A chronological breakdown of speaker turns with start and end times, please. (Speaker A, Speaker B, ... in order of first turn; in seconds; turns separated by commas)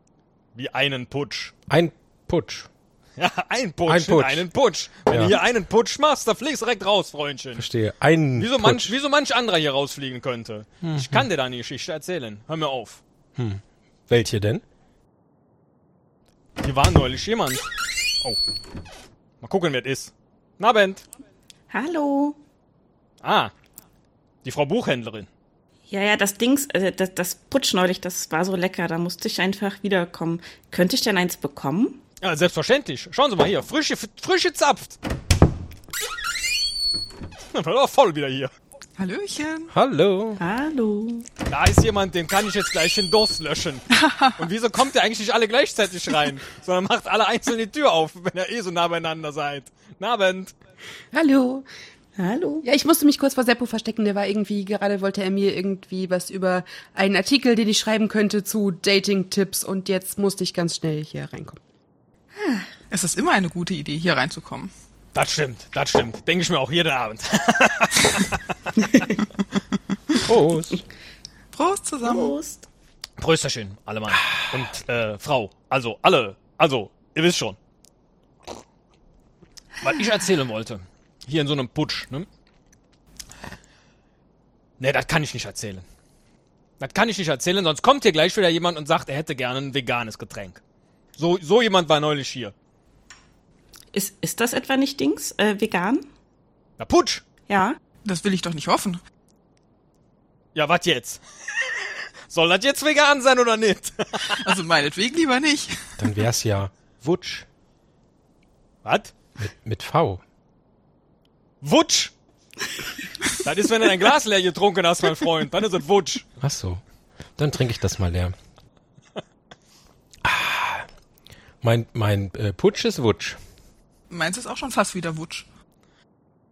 Speaker A: 0.5-1.5, Speaker B: 1.7-2.7, Speaker A: 3.2-7.6, Speaker B: 3.9-4.5, Speaker B: 5.0-5.4, Speaker B: 7.5-9.0, Speaker A: 8.4-13.0, Speaker B: 10.8-11.3, Speaker B: 13.3-14.6, Speaker A: 16.6-17.7, Speaker A: 19.4-21.0, Speaker C: 21.7-22.4, Speaker A: 23.2-23.5, Speaker A: 24.4-25.3, Speaker C: 25.9-32.0, Speaker A: 32.2-35.0, Speaker A: 37.5-38.5, Speaker D: 39.0-39.7, Speaker B: 39.7-40.4, Speaker C: 40.4-41.2, Speaker A: 41.5-43.9, Speaker D: 44.0-44.3, Speaker A: 44.4-50.5, Speaker E: 51.1-51.6, Speaker C: 52.2-52.6, Speaker E: 52.6-61.6, Speaker C: 62.4-62.7, Speaker D: 62.9-64.7, Speaker A: 65.1-68.4, Speaker B: 70.2-70.8, Speaker D: 71.5-72.4, Speaker C: 72.1-72.7, Speaker A: 73.2-77.6, Speaker A: 79.8-82.3, Speaker A: 84.8-85.8, Speaker A: 86.8-90.6, Speaker A: 91.2-92.5, Speaker C: 93.9-96.0, Speaker A: 96.8-97.2, Speaker C: 97.5-97.8, Speaker D: 98.0-99.0, Speaker A: 100.5-101.2, Speaker A: 102.3-104.5, Speaker D: 104.3-105.9, Speaker B: 106.0-107.5, Speaker A: 108.8-109.1, Speaker B: 109.4-110.2, Speaker A: 111.6-112.1, Speaker A: 113.4-116.2, Speaker B: 116.4-116.8, Speaker B: 117.4-118.3, Speaker B: 120.2-120.8, Speaker B: 121.6-123.4, Speaker D: 124.1-125.5